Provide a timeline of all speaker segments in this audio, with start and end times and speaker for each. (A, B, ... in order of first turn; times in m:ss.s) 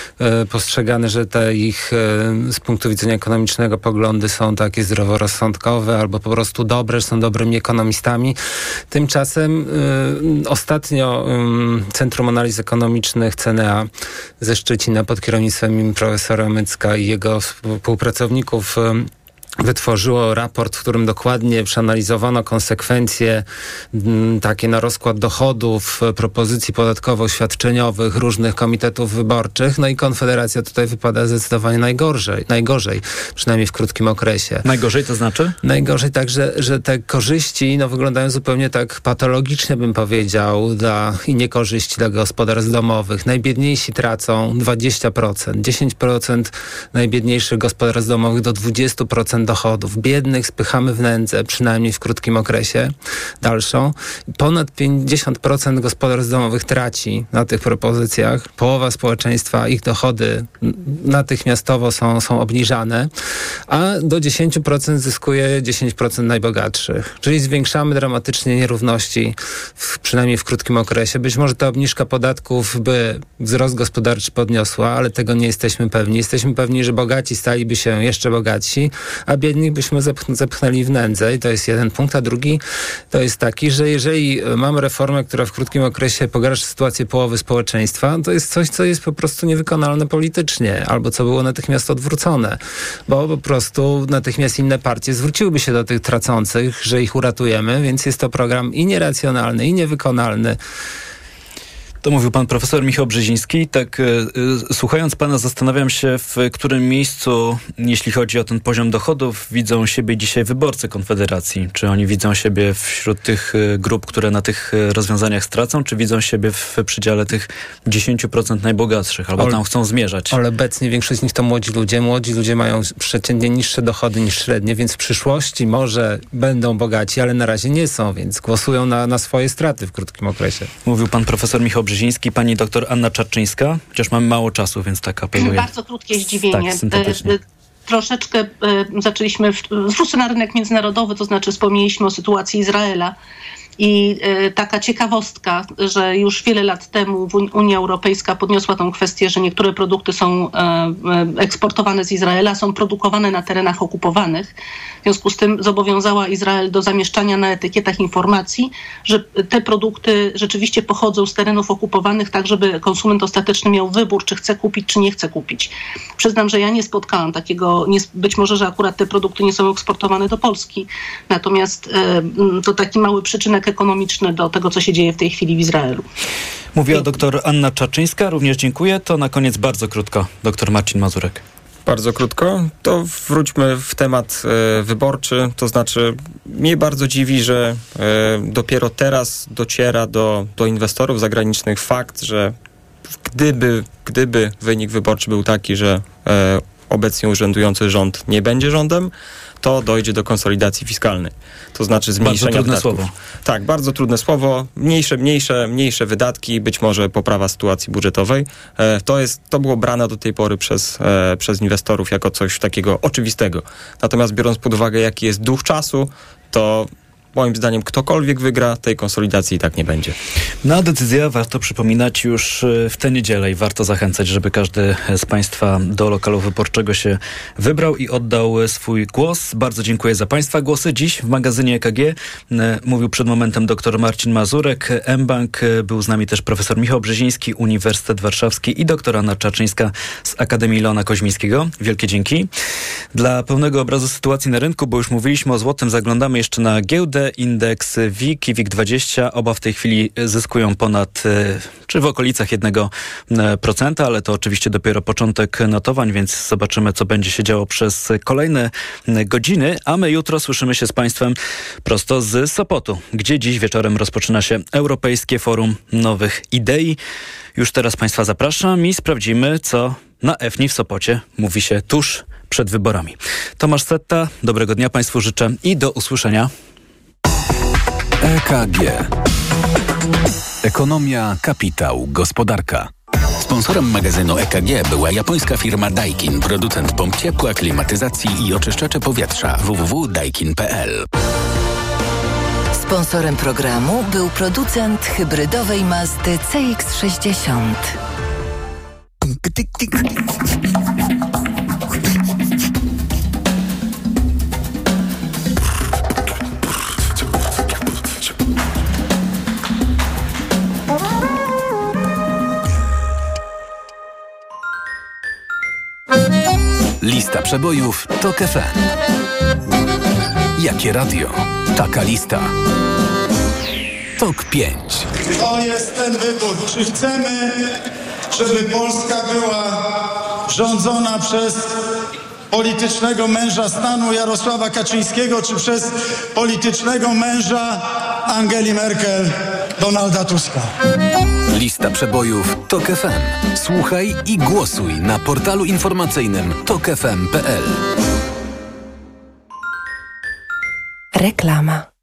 0:00.2-0:08.4 A
0:08.9-0:13.9 A
0:14.4-0:34.6 A
0:34.6-0:35.6 B
0:35.6-1:03.1 A
1:03.7-1:40.6 A
1:42.0-2:00.4 B
2:00.3-2:10.7 A
2:10.9-2:15.7 B
2:15.4-2:23.1 C
2:16.3-2:17.4 B
2:23.8-2:34.5 C
2:35.0-2:56.1 C
2:56.8-3:01.4 B
3:01.9-3:12.6 D
3:13.2-3:40.2 D
3:22.2-3:23.1 B
3:40.6-4:02.5 B
4:03.1-4:27.0 B
4:27.6-4:36.5 B
4:38.2-4:39.1 E
4:40.6-4:42.9 E
4:43.4-4:51.1 F
4:52.7-4:58.0 G
5:17.0-5:18.8 E
5:20.6-5:22.5 E
5:24.2-5:25.1 E
5:25.3-5:27.8 H
5:28.3-5:29.9 H
5:30.4-5:31.7 H
5:32.5-5:40.7 H
5:41.5-5:47.8 E
5:51.2-5:51.9 G